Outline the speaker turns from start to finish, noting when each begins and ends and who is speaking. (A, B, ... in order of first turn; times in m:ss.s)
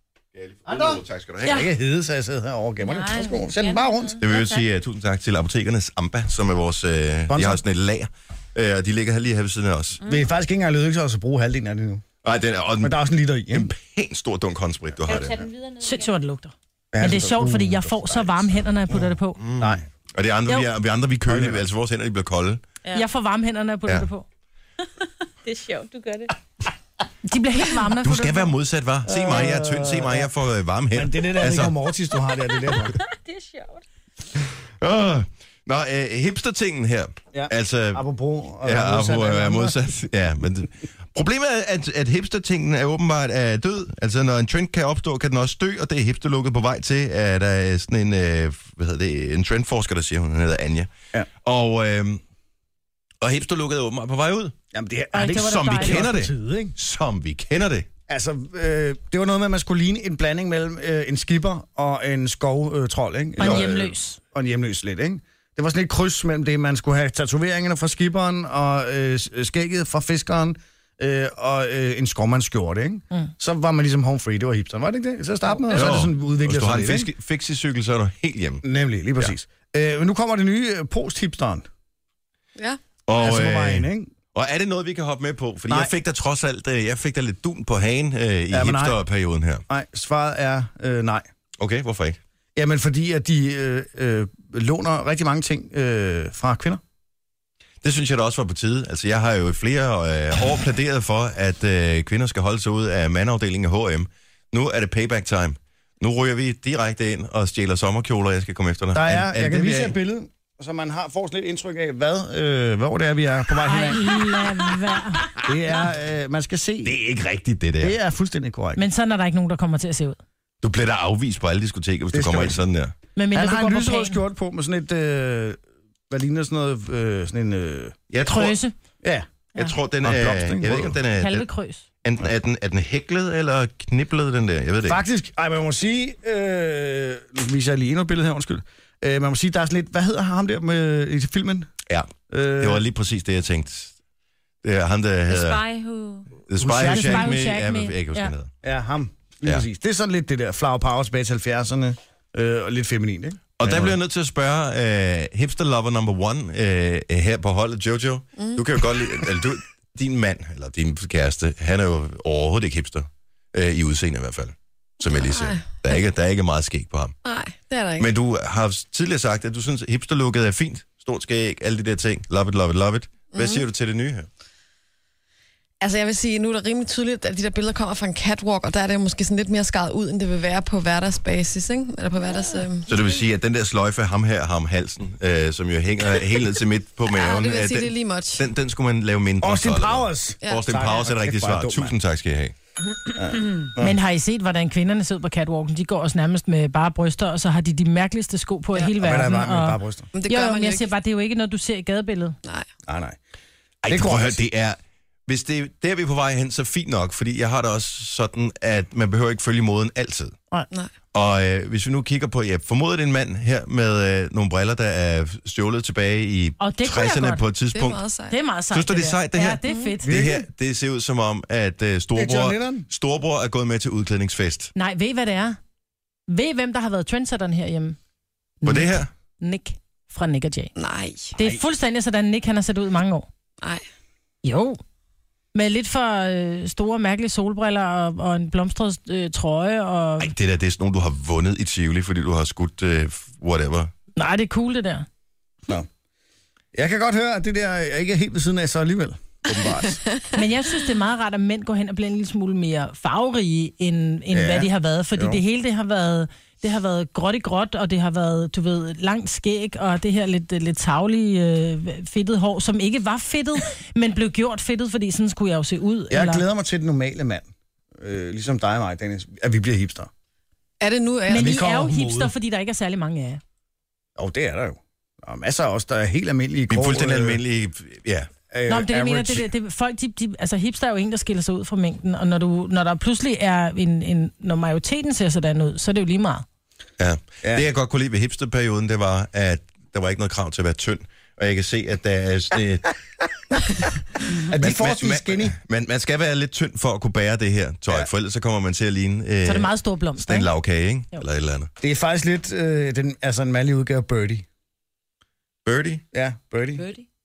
0:00.3-0:01.6 A
0:00.7-0:04.2 B
0:02.8-0:04.6 C
0:04.2-0:10.0 A
0:07.3-0:07.6 B
0:10.0-0:10.2 C
0:10.0-0:12.0 B
0:12.2-0:15.4 A
0:12.8-0:13.7 B
0:15.0-0:16.1 C
0:15.8-0:19.4 D
0:16.9-0:18.4 B
0:19.4-0:22.6 A
0:19.6-0:19.8 B
0:21.3-0:21.6 B
0:22.9-0:24.2 D
0:25.4-0:26.3 C
0:27.2-0:28.5 D
0:28.0-0:31.8 A
0:29.1-0:30.3 B
0:30.9-0:33.0 B
0:32.9-0:33.8 C
0:34.8-0:38.0 A
0:37.3-0:39.8 B
0:38.6-0:50.9 A
0:51.4-0:52.2 A
0:53.2-0:54.5 A
0:54.7-0:56.7 B
0:55.1-0:56.1 D
0:55.2-0:57.9 A
0:58.1-1:17.1 B
1:03.4-1:04.2 D
1:15.7-1:18.6 A
1:18.6-1:21.6 B
1:23.1-1:29.6 A
1:23.2-1:24.1 B
1:28.5-1:29.0 B
1:29.7-1:31.2 B
1:31.6-1:32.2 A
1:32.6-1:36.8 B
1:37.8-1:49.9 A
1:48.9-1:54.3 B
1:53.6-1:55.3 D
1:55.4-1:56.9 B
1:56.8-1:58.0 A
1:57.8-1:58.8 B
1:58.8-2:00.2 D
2:00.6-2:02.9 A
2:02.1-2:02.6 B
2:03.2-2:04.2 D
2:03.3-2:05.6 B
2:06.1-2:07.9 B
2:08.1-2:08.6 A
2:08.3-2:08.7 D
2:09.0-2:09.3 B
2:09.6-2:11.5 A
2:10.0-2:11.0 B
2:11.2-2:11.8 D
2:12.0-2:15.0 A
2:14.8-2:21.7 B
2:21.9-2:23.9 A
2:22.3-2:22.8 B
2:24.6-2:25.6 A
2:25.3-2:26.4 C
2:26.5-2:28.5 A
2:26.6-2:27.4 B
2:26.8-2:28.3 D
2:28.6-2:33.9 B
2:33.6-2:47.2 A
2:45.0-2:46.0 E
2:47.2-2:48.1 E
2:48.0-2:54.3 A
2:53.3-2:53.6 E
2:55.8-3:02.9 E
3:02.9-3:12.5 A
3:07.1-3:08.4 E
3:09.4-3:11.9 B
3:13.2-3:14.0 B
3:13.8-3:22.4 D
3:19.0-3:20.1 B
3:20.1-3:20.9 E
3:22.9-3:23.2 B
3:23.8-3:30.4 A
3:23.9-3:24.4 B
3:31.1-3:38.0 A
3:36.6-3:37.4 D
3:37.7-3:38.4 E
3:38.3-3:40.2 D
3:38.7-3:44.7 A
3:39.6-3:39.9 E
3:40.0-3:40.4 B
3:42.1-3:42.9 B
3:44.8-3:45.6 D
3:46.3-3:48.0 D
3:48.6-3:50.7 D
3:48.6-3:49.1 A
3:50.8-3:51.4 E
3:51.4-3:53.3 D
3:54.4-3:54.8 D
3:55.5-4:00.3 D
4:00.2-4:03.9 A
4:04.2-4:05.1 D
4:06.7-4:10.0 B
4:10.3-4:26.4 D
4:14.3-4:15.4 B
4:26.1-4:30.1 B
4:30.8-4:31.7 E
4:31.3-4:33.4 D
4:31.3-4:32.3 B
4:34.2-4:37.4 B
4:36.7-4:38.3 A
4:38.5-4:39.4 B
4:38.7-4:46.4 D
4:47.0-4:53.0 A
4:54.4-4:55.5 B
4:54.6-5:01.7 A
4:59.4-5:00.5 D
5:01.8-5:04.4 B
5:05.6-5:06.0 A
5:06.1-5:06.9 B
5:06.8-5:07.0 C